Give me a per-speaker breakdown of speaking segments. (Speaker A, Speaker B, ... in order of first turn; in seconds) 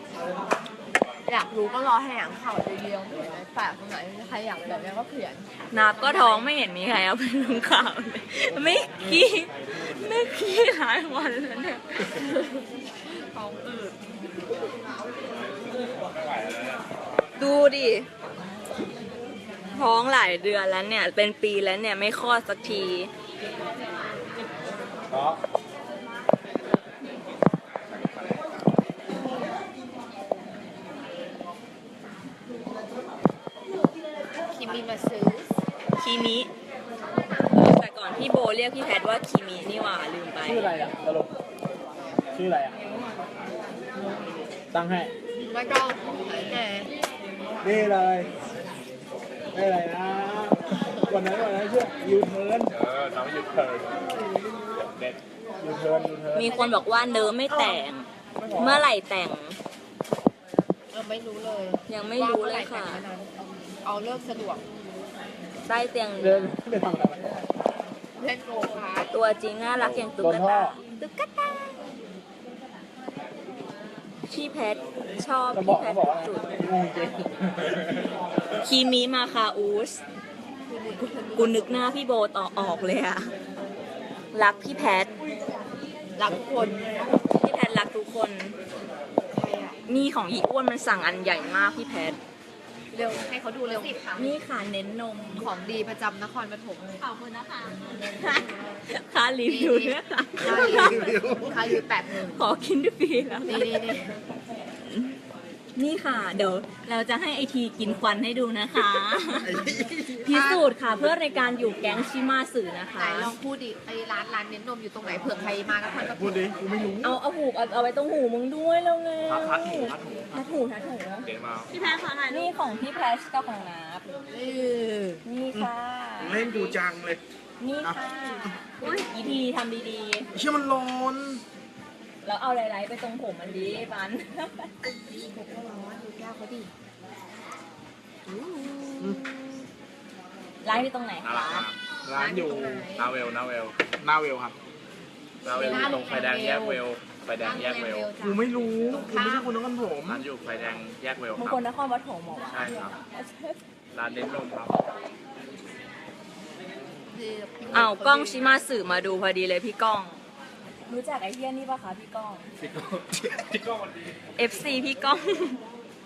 Speaker A: 1.2-6.5, 12.2-14.0, 34.5-35.5, 45.4-46.9, 56.3-57.7, 60.9-64.6, 68.2-69.1, 80.7-81.9, 86.2-86.8, 89.3-89.8, 92.9-94.4, 95.3-97.0, 99.5-102.4, 103.4-104.1, 110.2-110.7, 113.0-116.4, 121.7-122.5, 124.3-125.2, 128.8-129.1, 135.1-136.7, 138.3-139.7, 141.3-143.1, 145.5-146.8, 147.4-149.6, 157.1-158.6
Speaker B: 5.7-12.1, 17.4-18.1, 19.7-23.1, 36.0-36.5, 37.4-40.7, 56.3-59.6, 61.9-63.0, 65.6-66.6, 69.1-71.9, 74.2-76.5, 78.5-80.0, 81.3-83.3, 84.3-85.1, 87.3-88.6, 89.9-92.2, 94.2-95.4, 97.0-101.2, 102.3-103.7, 104.9-105.2, 105.8-109.6, 110.2-113.3, 117.0-121.3, 122.3-124.1, 125.2-126.7, 127.6-130.3, 132.2-134.7, 140.6-141.6, 145.5-146.0, 151.3-153.6, 157.7-160.2, 160.8-162.5, 164.3-165.6
Speaker C: 16.0-16.8, 25.1-25.4, 27.9-28.4, 52.7-54.1, 54.7-55.2, 119.3-120.4, 121.2-121.7, 141.2-143.8, 145.4-148.1, 150.1-151.6, 152.5-153.0, 153.9-154.8, 162.6-164.2
Speaker D: 40.4-41.3, 42.3-42.8, 44.7-45.1, 47.6-48.3, 49.5-52.7, 55.6-56.5, 58.4-58.9, 66.2-67.4, 70.2-70.8, 75.5-77.7, 100.5-101.8, 109.3-110.2, 116.2-117.1, 125.5-127.2, 127.8-128.6, 130.3-131.4, 142.2-142.8, 144.0-144.5, 148.2-150.2